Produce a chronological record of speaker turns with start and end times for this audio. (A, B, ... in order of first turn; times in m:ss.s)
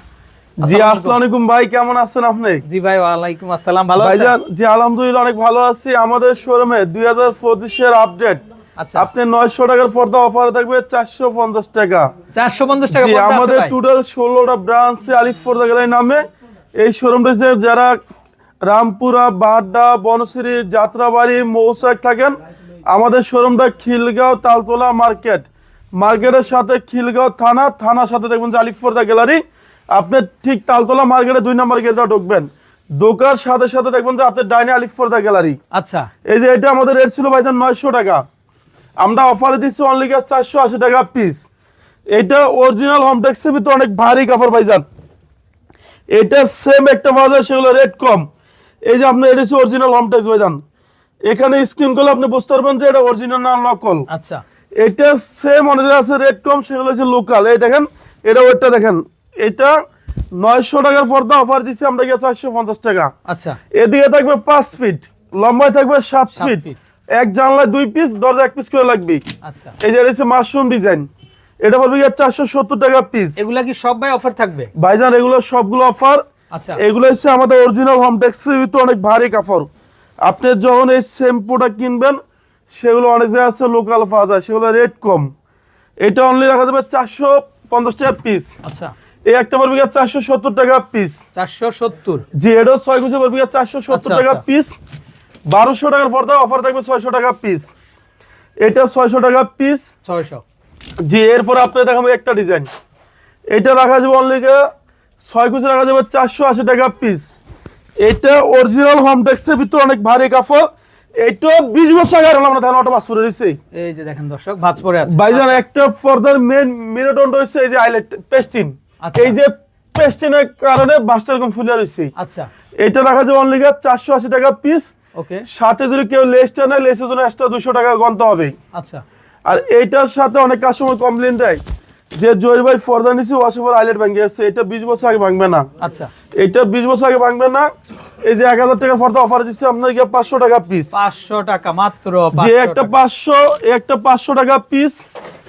0:00.6-0:02.6 A
0:00.6-0:01.2 B
0:02.6-0:04.4 B
0:04.0-0:08.4 A
0:08.8-0:09.1 B
0:09.0-0:12.1 A
0:12.3-0:13.8 B
0:12.9-0:16.2 A
0:16.8-0:18.0 A
0:18.6-0:35.6 A
0:35.7-0:36.1 B
0:36.2-0:38.2 A
0:39.0-0:41.4 A
0:42.1-0:44.8 A
0:46.1-0:48.3 A
0:48.8-0:50.6 A
0:51.2-0:54.0 A
0:54.1-0:54.4 B
0:54.8-0:59.8 A
1:00.4-1:03.1 A
1:03.2-1:03.6 B
1:03.7-1:06.6 A
1:06.3-1:06.8 B
1:07.2-1:09.2 A
1:09.4-1:09.8 B
1:09.8-1:11.1 A
1:11.6-1:13.4 A
1:13.4-1:14.7 B
1:14.8-1:16.2 A
1:16.5-1:16.8 B
1:16.8-1:19.7 A
1:20.2-1:22.2 A
1:22.7-1:25.3 A
1:26.0-1:28.5 A
1:28.6-1:28.9 B
1:29.3-1:31.2 A
1:31.3-1:32.2 B
1:32.3-1:34.7 A
1:33.9-1:34.4 B
1:35.5-1:37.7 A
1:38.6-1:39.9 A
1:40.0-1:40.4 B
1:41.0-1:42.7 A
1:43.5-1:44.6 A
1:45.2-1:47.4 A
1:48.0-1:53.6 A
1:53.7-1:55.6 B
1:55.1-2:02.1 A
1:59.0-1:59.4 B
2:02.2-2:02.5 B
2:02.8-2:04.9 A
2:05.1-2:05.5 B
2:05.5-2:08.5 A
2:08.7-2:09.0 B
2:09.4-2:11.6 A
2:12.2-2:15.7 A
2:15.8-2:16.1 B
2:16.4-2:17.7 A
2:18.2-2:20.9 A
2:20.9-2:23.0 B
2:22.3-2:25.0 A